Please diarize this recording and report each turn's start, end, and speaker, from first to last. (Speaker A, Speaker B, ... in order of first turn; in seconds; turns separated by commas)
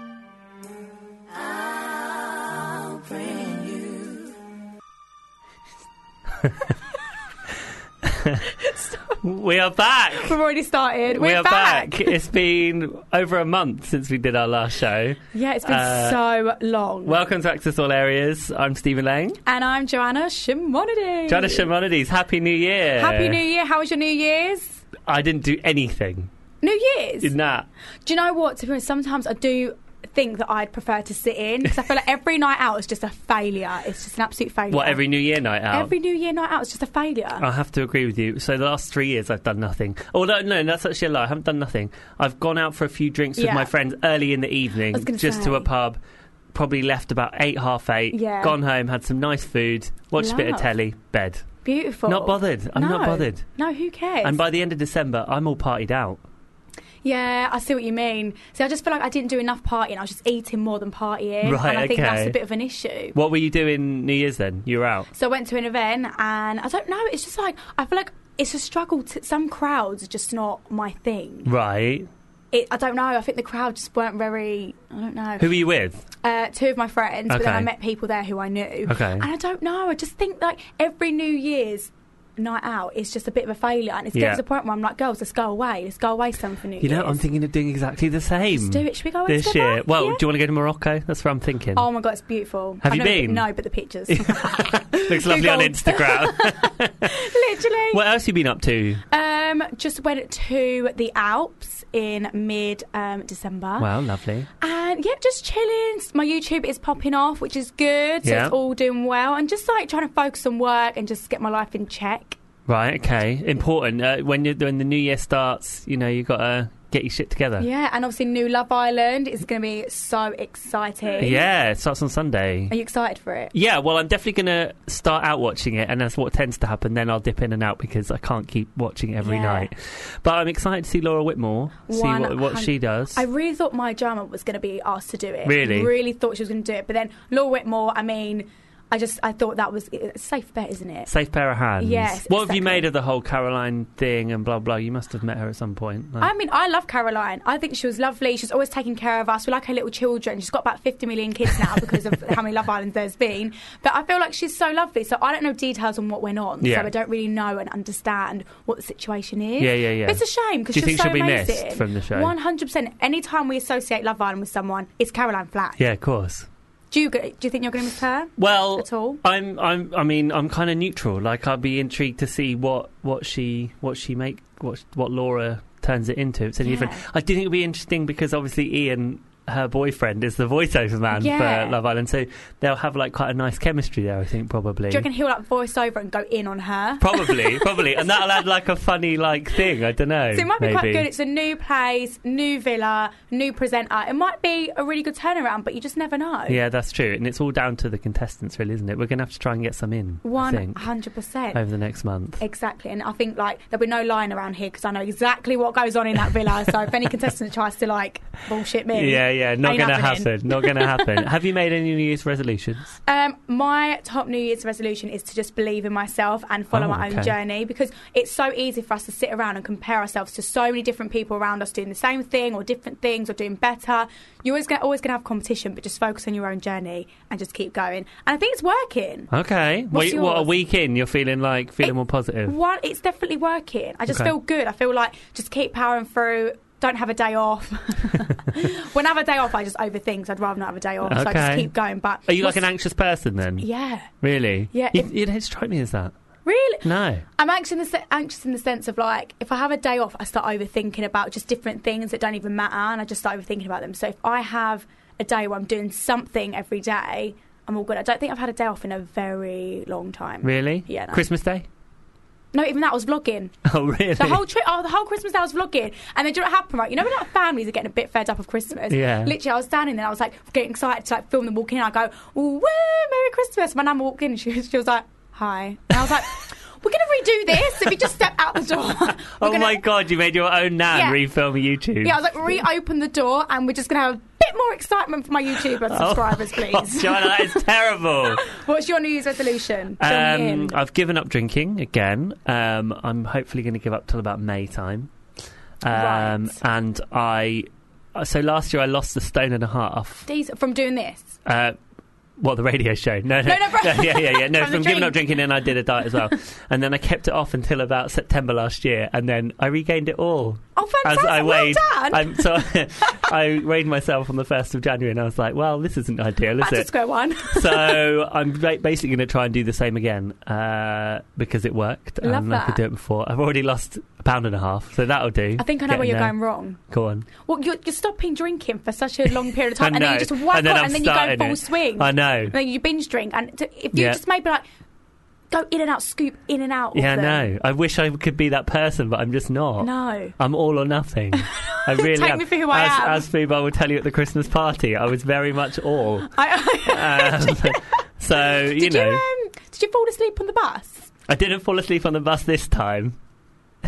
Speaker A: 8.0-8.4, Speaker B: 8.6-9.2, Speaker A: 9.2-10.4, Speaker B: 10.2-12.1, Speaker A: 11.1-16.2, Speaker B: 15.3-17.2, Speaker A: 17.0-19.4, Speaker B: 19.4-21.7, Speaker A: 21.3-23.4, Speaker B: 23.0-24.8, Speaker A: 25.0-26.3, Speaker B: 26.6-27.3, Speaker A: 27.2-27.7, Speaker B: 28.1-35.0, Speaker A: 34.7-35.9, Speaker B: 35.7-37.4, Speaker A: 37.4-46.0, Speaker B: 43.4-43.7, Speaker B: 44.9-45.7, Speaker A: 46.5-51.5, Speaker B: 48.1-48.5, Speaker B: 50.2-50.7, Speaker B: 51.6-54.4, Speaker A: 52.0-53.5, Speaker A: 54.2-56.2, Speaker B: 57.0-63.1, Speaker A: 61.4-62.4, Speaker A: 63.1-65.1, Speaker B: 65.1-71.5, Speaker A: 71.4-72.1, Speaker B: 72.5-75.5, Speaker A: 75.4-76.0, Speaker B: 76.2-87.2, Speaker A: 77.3-77.7, Speaker A: 78.9-79.3, Speaker A: 84.1-84.4, Speaker A: 86.8-91.9, Speaker B: 88.5-90.2, Speaker B: 91.8-98.0, Speaker A: 92.8-93.5, Speaker A: 94.1-97.3, Speaker A: 97.9-99.0, Speaker B: 99.1-103.9, Speaker A: 103.8-104.5, Speaker B: 104.6-112.4, Speaker A: 108.2-108.5, Speaker A: 112.7-117.7, Speaker B: 117.6-121.4, Speaker A: 121.2-122.7, Speaker B: 122.7-123.5, Speaker A: 123.5-133.2, Speaker B: 129.2-129.7, Speaker B: 131.9-141.1, Speaker A: 135.4-135.9, Speaker A: 141.1-146.3, Speaker B: 141.8-142.9, Speaker B: 146.2-165.8, Speaker A: 156.6-156.9, Speaker A: 159.6-162.3, Speaker A: 165.8-166.5, Speaker B: 166.9-169.2, Speaker A: 168.4-185.1, Speaker B: 176.6-177.0, Speaker B: 181.1-181.8, Speaker B: 184.9-188.2, Speaker A: 187.0-191.1, Speaker B: 190.3-196.6, Speaker A: 196.5-200.8, Speaker B: 200.2-201.6, Speaker A: 201.5-202.4, Speaker B: 202.4-211.2, Speaker A: 208.9-212.9, Speaker B: 213.0-229.3, Speaker A: 216.7-217.3, Speaker A: 229.3-232.6, Speaker B: 229.9-230.5, Speaker B: 232.4-242.7, Speaker A: 241.0-241.7, Speaker A: 242.2-243.7, Speaker B: 243.6-244.1, Speaker A: 244.2-246.1, Speaker B: 244.7-245.1, Speaker B: 246.4-261.2, Speaker A: 246.8-247.2, Speaker A: 260.4-261.6, Speaker B: 262.5-263.6, Speaker A: 263.6-264.4, Speaker B: 264.2-279.8, Speaker A: 268.9-269.3, Speaker A: 277.6-277.9, Speaker A: 279.3-282.5, Speaker B: 280.9-281.2, Speaker B: 282.0-287.6, Speaker A: 285.9-288.5, Speaker B: 288.4-290.8, Speaker A: 290.0-295.1, Speaker A: 295.8-300.3, Speaker B: 295.9-296.6, Speaker B: 300.2-301.4, Speaker A: 301.4-301.8, Speaker A: 302.4-316.9, Speaker B: 303.4-305.3, Speaker B: 310.8-312.6, Speaker B: 316.6-318.0, Speaker A: 317.4-327.3, Speaker B: 322.2-322.8, Speaker B: 325.6-326.8, Speaker B: 327.4-334.6, Speaker A: 329.8-332.5, Speaker A: 333.9-334.2, Speaker B: 335.5-337.5, Speaker A: 336.9-349.2, Speaker B: 339.8-340.4, Speaker B: 341.4-343.2, Speaker B: 346.3-347.8, Speaker B: 348.4-351.1, Speaker A: 351.3-353.2